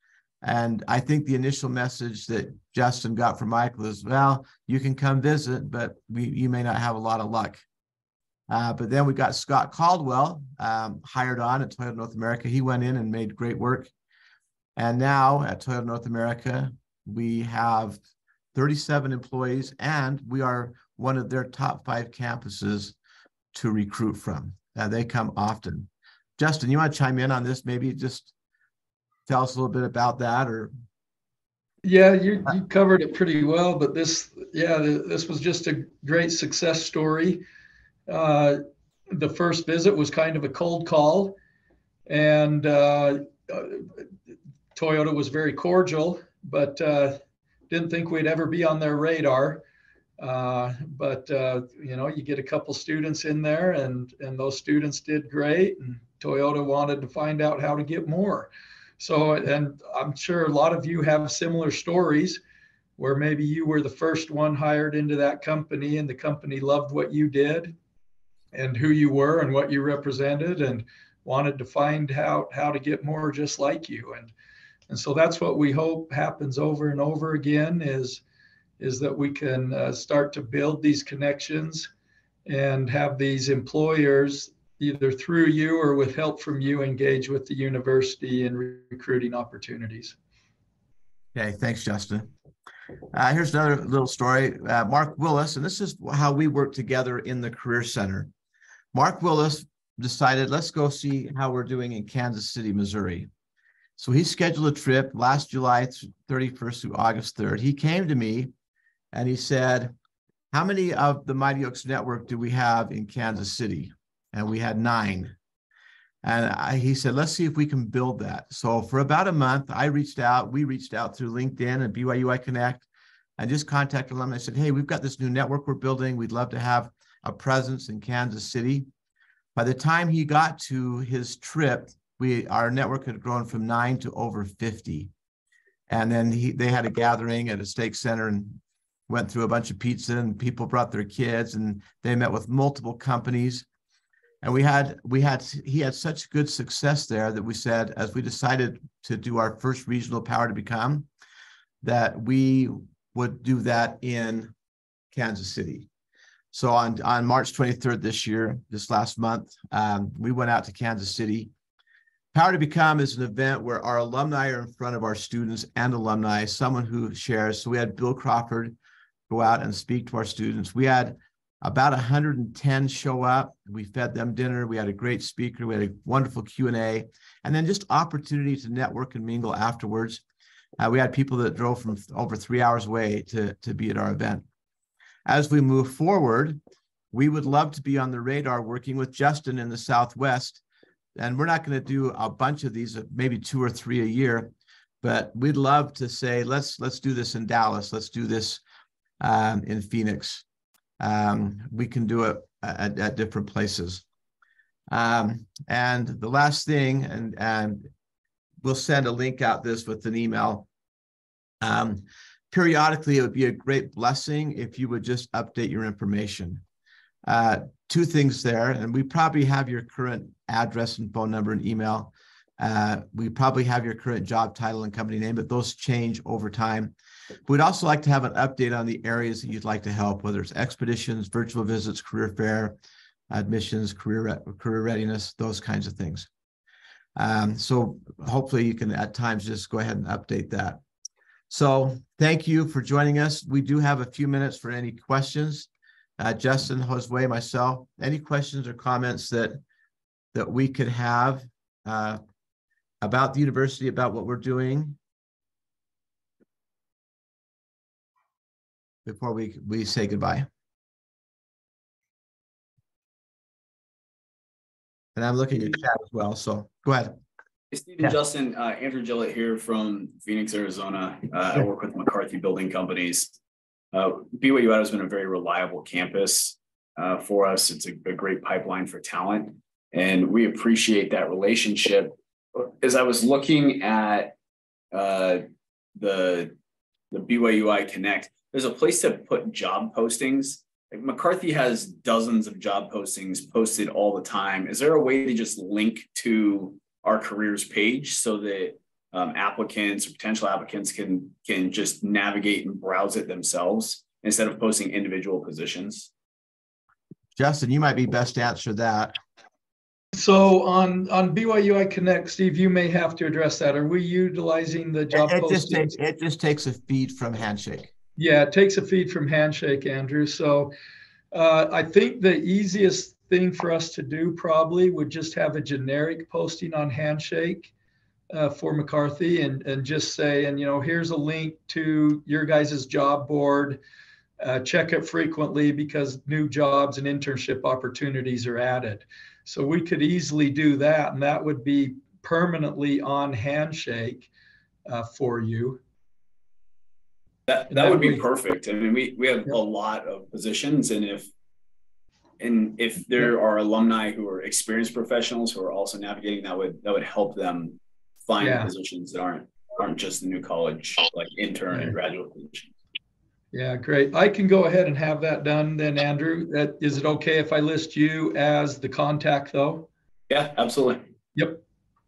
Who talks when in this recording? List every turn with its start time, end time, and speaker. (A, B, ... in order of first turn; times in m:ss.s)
0:00.4-0:07.6 A
0:08.5-0:13.9 A
0:14.8-0:18.0 A
0:18.5-0:23.0 A
0:23.5-0:28.3 A
0:29.3-0:30.7 A
0:31.8-0:37.4 B
0:38.1-0:41.4 B
0:42.1-0:44.0 B
0:44.8-0:47.2 B
0:47.7-0:49.6 B
0:50.2-1:02.4 B
1:03.0-1:07.8 B
1:08.5-1:14.3 B
1:14.9-1:18.2 B
1:18.8-1:21.9 B
1:22.5-1:30.2 B
1:31.3-1:32.3 A
1:33.1-1:38.3 A
1:38.9-1:43.3 A
1:44.0-1:48.5 A
1:49.1-1:49.9 A
1:50.5-1:55.3 A
1:56.2-2:02.9 A
2:03.4-2:08.9 A
2:09.6-2:15.1 A
2:15.9-2:23.7 A
2:24.4-2:31.1 A
2:31.8-2:34.5 A
2:35.1-2:35.9 A
2:36.5-2:41.5 A
2:42.3-2:48.8 A
2:49.3-3:00.2 A
3:00.8-3:04.4 A
3:05.3-3:06.6 A
3:07.1-3:10.6 A
3:11.2-3:18.6 A
3:19.2-3:20.4 A
3:21.0-3:24.0 A
3:24.9-3:27.9 A
3:28.6-3:30.7 A
3:31.6-3:36.6 A
3:37.3-3:46.9 A
3:47.5-3:52.8 A
3:53.3-3:56.3 A
3:57.2-4:00.8 A
4:01.5-4:05.7 A
4:06.2-4:09.6 A
4:10.3-4:12.2 A
4:13.0-4:15.0 A
4:19.1-4:20.5 A
4:25.2-4:27.2 A
4:27.7-4:33.4 C
4:33.9-4:44.4 C
4:44.9-4:45.4 C
4:46.0-4:46.6 C
4:47.1-5:06.1 C
5:07.4-5:09.2 A
5:10.2-5:15.9 B
5:15.1-5:17.9 A
5:18.2-5:20.7 B
5:21.3-5:27.7 B
5:28.3-5:33.8 B
5:34.4-5:44.3 B
5:44.9-5:45.8 B
5:47.5-5:51.3 C
5:47.7-5:48.2 B
5:52.4-6:02.7 C
5:58.4-5:58.7 B
6:03.5-6:09.9 B
6:10.3-6:11.1 C
6:11.4-6:11.6 B